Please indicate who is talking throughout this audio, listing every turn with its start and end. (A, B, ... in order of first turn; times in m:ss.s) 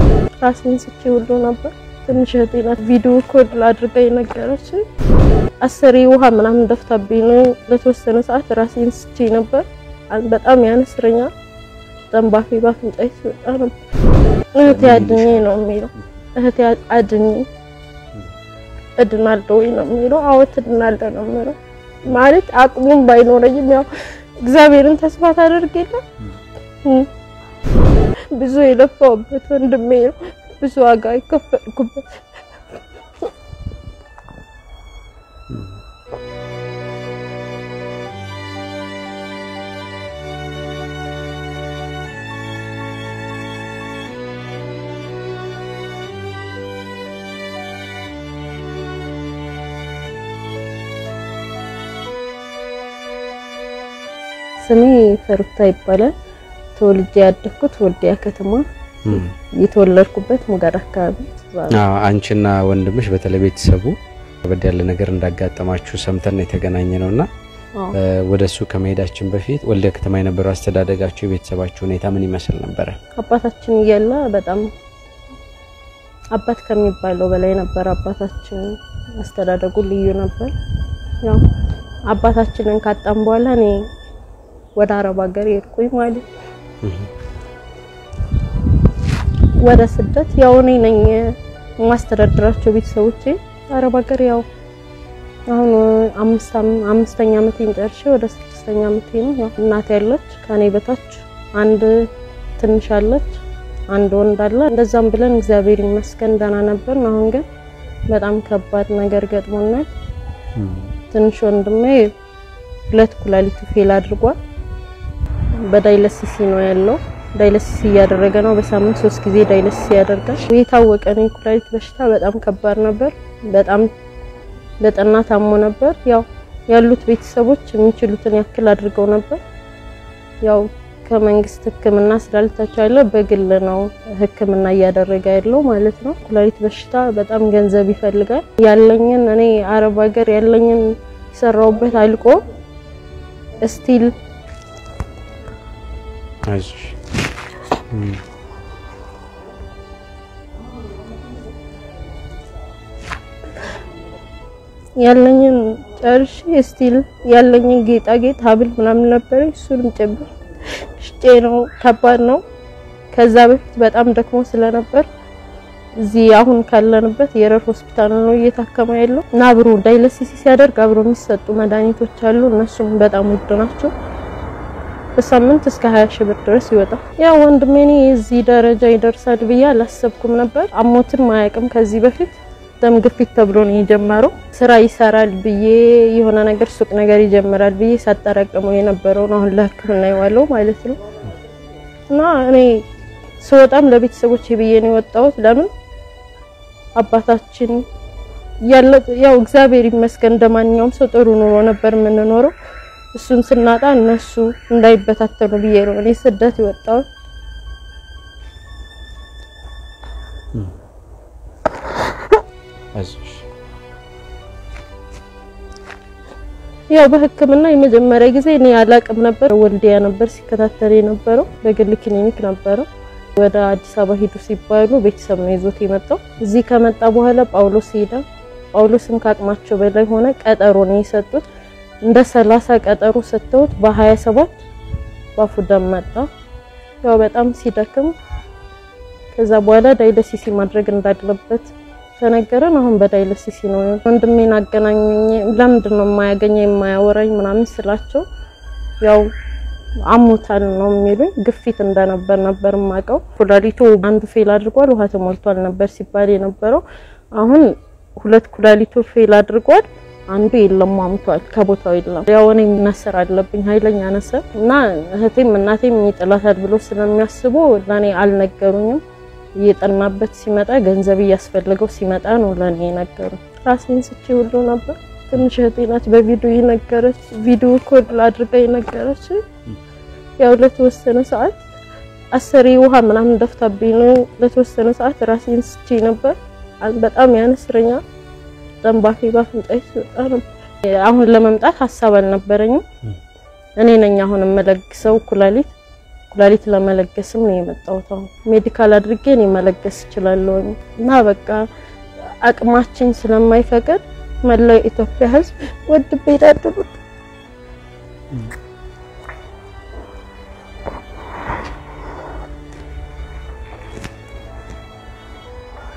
0:00.4-0:04.8 A
0:05.6-0:11.3 A
0:12.1-0:13.7 A
0:14.5-0:17.5 A
0:14.6-0:15.4 B
0:19.0-0:23.9 A
0:24.4-0:26.0 A
0:26.8-0:27.1 A
0:28.3-0:32.2 A
0:35.5-0:35.8 B
0:54.6-0:56.1 A
0:56.8-1:01.8 A
0:59.0-0:59.3 B
1:01.7-1:07.3 B
1:07.9-1:13.0 B
1:13.2-1:14.7 A
1:16.3-1:20.5 A
1:22.1-1:23.8 A
1:24.8-1:26.2 A
1:26.8-1:27.1 B
1:29.6-1:34.4 A
1:35.5-1:47.4 A
1:48.1-1:49.9 A
1:50.6-1:50.9 B
1:51.1-1:52.1 A
1:52.9-1:54.4 A
1:55.6-2:03.9 A
2:04.8-2:09.4 A
2:10.4-2:22.4 A
2:23.6-2:24.1 A
2:26.5-2:27.0 B
2:27.9-2:28.2 B
2:35.0-2:42.4 A
2:43.1-2:45.1 A
2:46.0-2:53.9 A
2:55.2-3:11.0 A
3:12.1-3:12.8 A
3:13.4-3:15.7 A
3:17.0-3:17.8 A
3:18.6-3:22.5 A
3:23.1-3:27.0 A
3:32.9-3:33.4 B
3:36.9-3:51.4 A
3:52.0-3:54.6 A
3:55.4-3:56.3 A
3:57.0-3:58.1 A
3:59.3-4:08.2 A
4:09.0-4:09.3 A
4:10.0-4:16.8 A
4:17.3-4:29.0 A
4:29.6-4:39.5 A
4:40.4-4:41.6 A
4:42.3-4:48.0 A
4:48.8-4:52.8 A
4:53.8-4:55.7 A
4:56.3-5:01.7 A
5:02.4-5:07.0 A